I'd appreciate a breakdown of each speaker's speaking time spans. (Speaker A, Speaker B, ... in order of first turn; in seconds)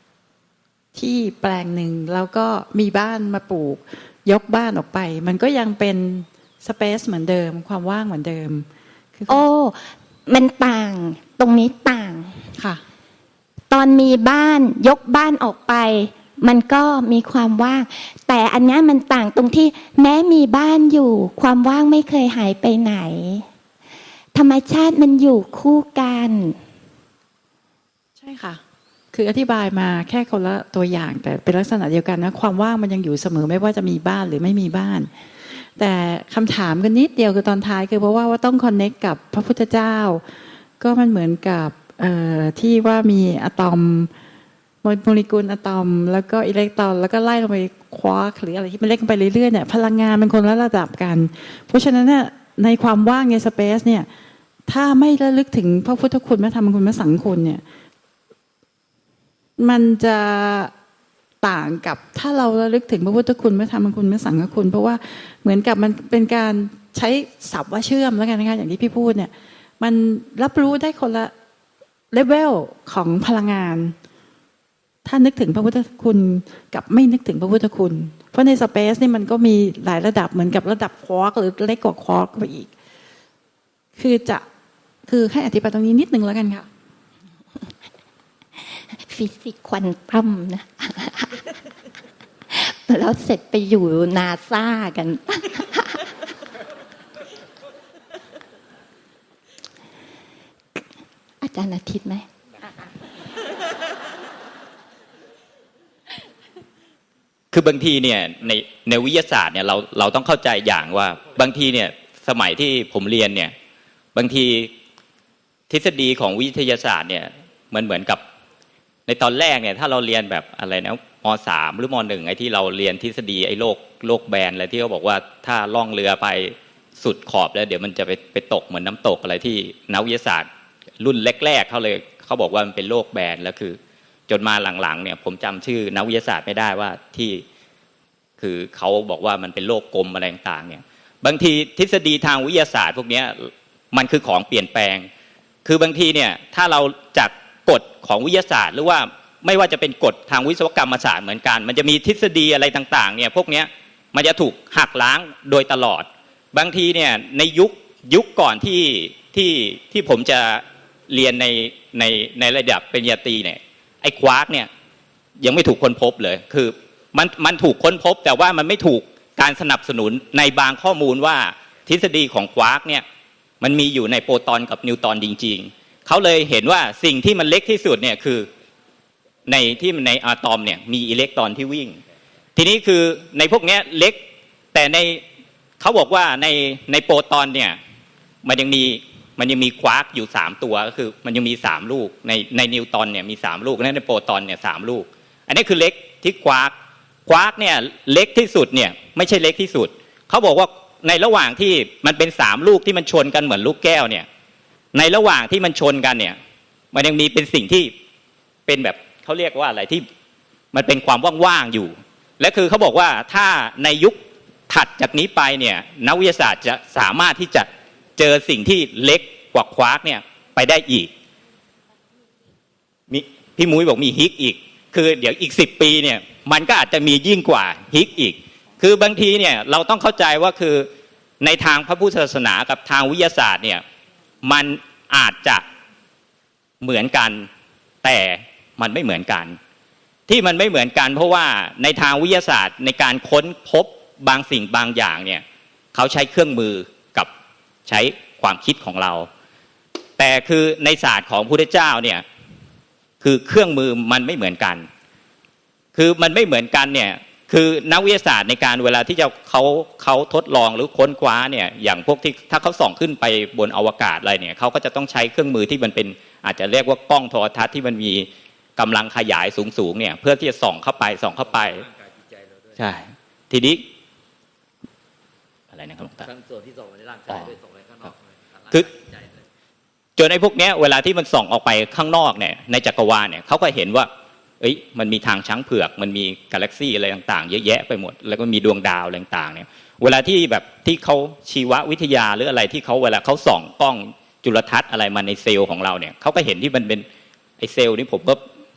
Speaker A: 0.9-9.4, 12.5-12.8, 28.2-28.6, 29.1-35.1, 35.8-40.2, 40.8-44.1, 44.8-54.1, 54.7-57.6, 59.6-60.7, 61.4-71.3, 72.1-74.0, 75.0-82.7, 84.0-84.5, 85.1-86.7
Speaker B: 9.3-12.4, 13.7-23.5, 24.4-26.6, 88.8-91.5, 92.5-96.1, 101.4-102.3
Speaker C: 107.5-113.5, 114.2-114.7, 115.7-118.2, 119.1-130.5, 131.0-137.4, 138.4-145.1, 145.7-164.7, 165.4-173.0, 173.6-178.5, 179.5-182.0, 182.6-184.2, 184.7-185.2, 185.8-187.8, 188.4-196.7, 197.2-204.2, 204.9-206.4, 206.9-207.9, 208.7-210.1, 210.7-214.2, 214.7-221.1, 223.1-230.9, 231.4-233.8, 234.4-235.6, 236.8-237.5, 238.0-239.6, 240.3-245.4, 245.9-247.3, 247.9-249.3, 250.2-252.2, 253.2-254.9, 255.9-271.9, 272.8-273.8, 275.7-276.3, 280.2-284.1, 284.6-297.1, 297.6-298.4
Speaker D: 271.6-272.8, 276.2-279.4